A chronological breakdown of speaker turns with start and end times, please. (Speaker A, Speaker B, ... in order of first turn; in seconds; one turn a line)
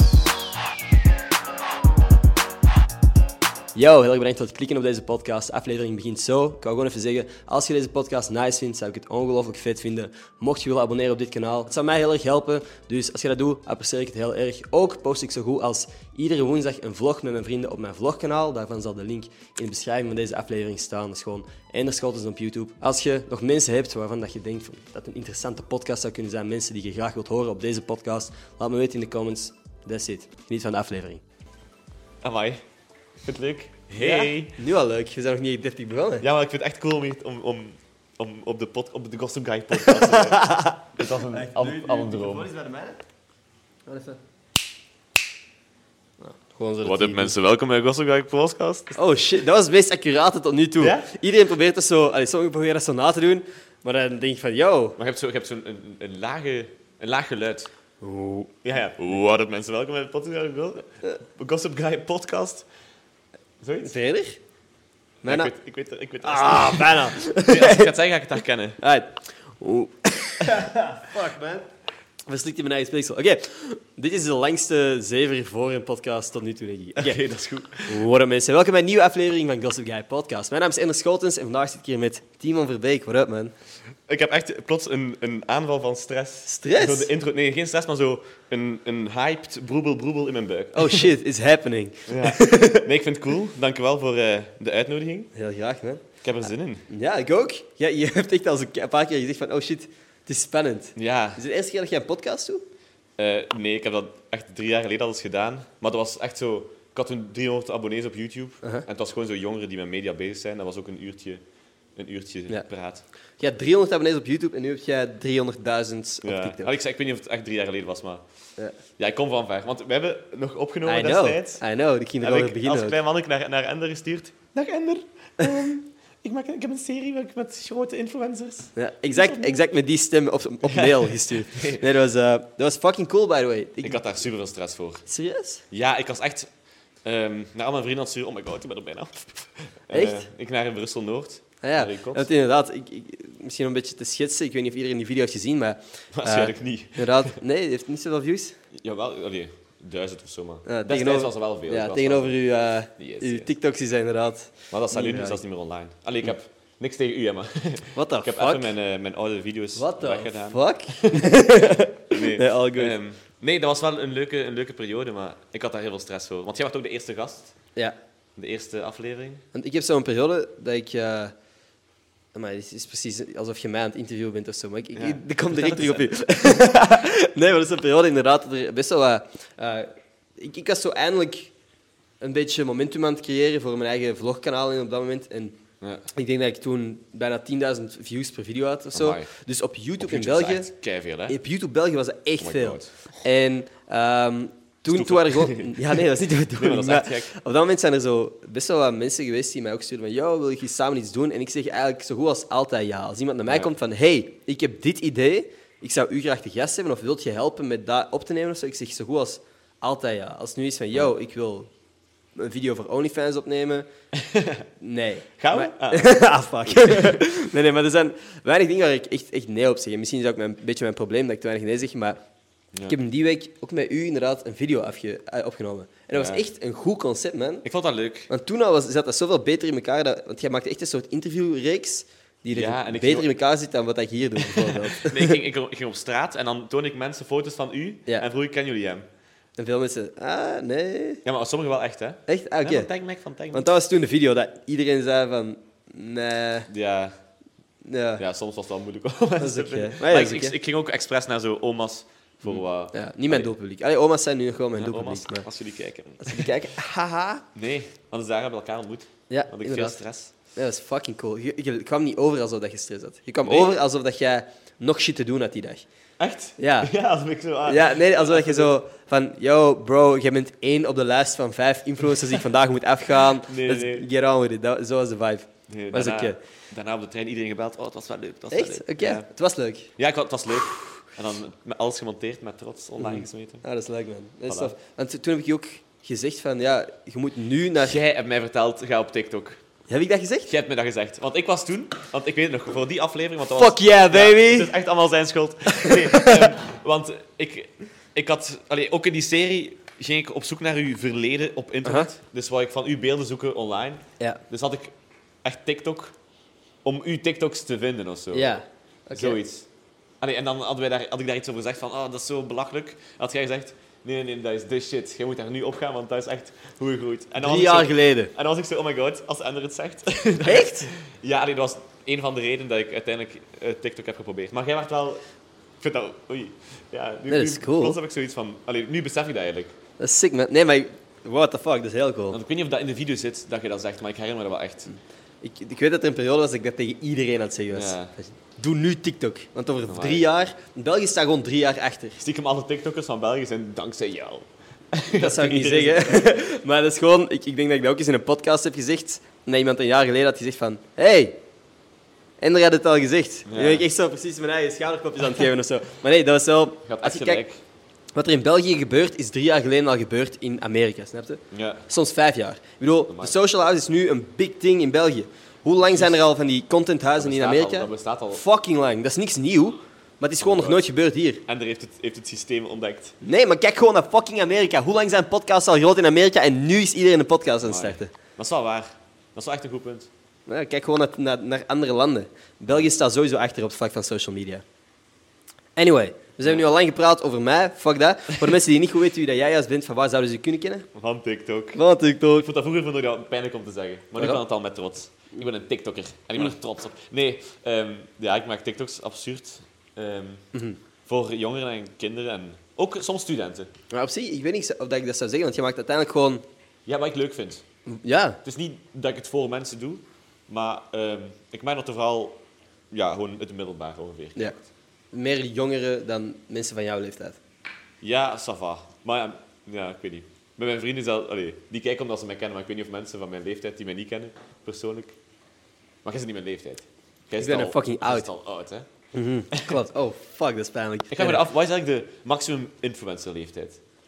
Speaker A: 3.7-31.2
Speaker B: 32.2-32.6
Speaker B: 33.2-34.6
Speaker A: 33.9-36.2
Speaker B: 36.2-42.5
Speaker A: 39.7-43.0
Speaker A: 43.9-44.2
Speaker A: 46.2-47.3
Speaker B: 46.8-48.9
Speaker A: 48.9-55.0
Speaker B: 50.8-51.1
Speaker B: 55.0-57.7
Speaker A: 58.0-58.5
Speaker B: 58.6-62.6
Speaker B: 63.6-63.9
Speaker A: 63.8-64.4
Speaker A: 65.2-65.5
Speaker B: 65.2-68.8
Speaker A: 66.2-67.9
Speaker A: 68.8-71.7
Speaker A: 72.3-77.2
Speaker B: 77.0-78.0
Speaker A: 77.8-83.5
Speaker B: 84.1-91.1
Speaker A: 86.5-87.1
Speaker A: 90.7-92.9
Speaker B: 92.1-95.3
Speaker A: 95.3-96.0
Speaker B: 96.2-96.9
Speaker A: 96.9-102.6
Speaker B: 101.0-101.4
Speaker B: 103.2-111.4
Speaker B: 112.0-113.0
Speaker A: 113.4-116.7
Speaker B: 116.2-118.2
Speaker B: 119.0-121.6
Speaker A: 120.8-123.0
Speaker B: 122.2-129.7
Speaker A: 128.7-134.0
Speaker B: 130.6-131.9
Speaker B: 133.8-135.0
Speaker A: 135.1-135.6
Speaker B: 135.7-136.5
Speaker B: 137.0-142.3
Speaker A: 139.9-140.2
Speaker A: 141.6-148.6
Speaker B: 146.1-147.3
Speaker B: 148.7-152.4
Speaker A: 150.7-155.4
Speaker B: 153.0-153.5
Speaker B: 154.7-167.5
Speaker A: 157.9-158.7
Speaker A: 159.7-162.9
Speaker B: 168.3-169.4
Speaker A: 169.5-171.3
Speaker A: 172.3-181.5
Speaker B: 174.9-176.1
Speaker A: 182.2-185.6
Speaker B: 185.8-186.1
Speaker A: 186.1-190.7
Speaker B: 188.9-189.3
Speaker B: 190.0-191.4
Speaker A: 191.3-211.7
Speaker B: 192.4-192.9
Speaker B: 194.9-197.3
Speaker A: 212.3-213.8
Speaker B: 214.1-214.7
Speaker A: 214.8-222.2
Speaker B: 215.4-217.2
Speaker A: 222.9-227.6
Speaker B: 226.1-226.4
Speaker B: 227.6-228.3
Speaker A: 228.3-235.4
Speaker B: 232.5-233.3
Speaker B: 234.4-239.1
Speaker A: 239.6-241.2
Speaker B: 241.2-243.7
Speaker A: 242.3-242.9
Speaker A: 243.5-246.7
Speaker B: 246.7-247.2
Speaker A: 247.8-248.2
Speaker B: 248.2-253.5
Speaker A: 249.4-250.5
Speaker A: 252.4-255.5
Speaker B: 254.8-256.5
Speaker A: 256.2-257.4
Speaker B: 257.5-260.3
Speaker A: 259.3-260.0
Speaker A: 260.5-265.9
Speaker B: 263.4-263.7
Speaker B: 266.2-268.7
Speaker A: 266.6-266.9
Speaker A: 267.6-276.4
Speaker B: 273.2-274.1
Speaker B: 275.7-279.3
Speaker A: 278.5-279.9
Speaker B: 280.0-283.6
Speaker A: 283.0-288.0
Speaker B: 284.5-284.7
Speaker B: 287.8-289.6
Speaker A: 289.9-290.5
Speaker B: 290.5-306.1
Speaker A: 293.5-294.7
Speaker A: 295.7-296.6
Speaker A: 301.8-302.1
Speaker B: 306.8-308.6
Speaker A: 308.3-309.4
Speaker B: 309.1-309.7
Speaker B: 310.2-325.2
Speaker A: 317.4-318.3
Speaker A: 320.4-320.9
Speaker B: 325.8-329.8
Speaker A: 327.3-328.0
Speaker A: 330.0-332.4
Speaker B: 332.3-334.9
Speaker A: 334.9-342.2
Speaker B: 337.7-338.1
Speaker B: 339.9-340.2
Speaker B: 342.2-346.4
Speaker A: 345.1-351.4
Speaker A: 352.4-357.4
Speaker B: 353.4-353.9
Speaker B: 356.8-357.6
Speaker A: 358.1-371.4
Speaker B: 361.5-361.9
Speaker B: 363.1-363.3
Speaker B: 365.8-366.1
Speaker B: 367.2-368.4
Speaker B: 370.4-370.8
Speaker B: 371.4-373.1
Speaker A: 373.2-378.1
Speaker B: 377.6-380.1
Speaker A: 380.5-384.6
Speaker A: 385.8-390.9
Speaker B: 390.9-391.8
Speaker A: 391.7-392.5
Speaker B: 392.3-400.4
Speaker A: 400.5-400.8
Speaker B: 401.1-403.7
Speaker A: 403.9-406.4
Speaker B: 406.9-407.6
Speaker A: 407.9-408.4
Speaker B: 408.4-414.7
Speaker A: 415.1-417.4
Speaker B: 418.0-425.2
Speaker B: 426.0-428.9
Speaker A: 427.4-428.3
Speaker A: 429.1-431.4
Speaker B: 429.5-429.8
Speaker B: 431.1-433.8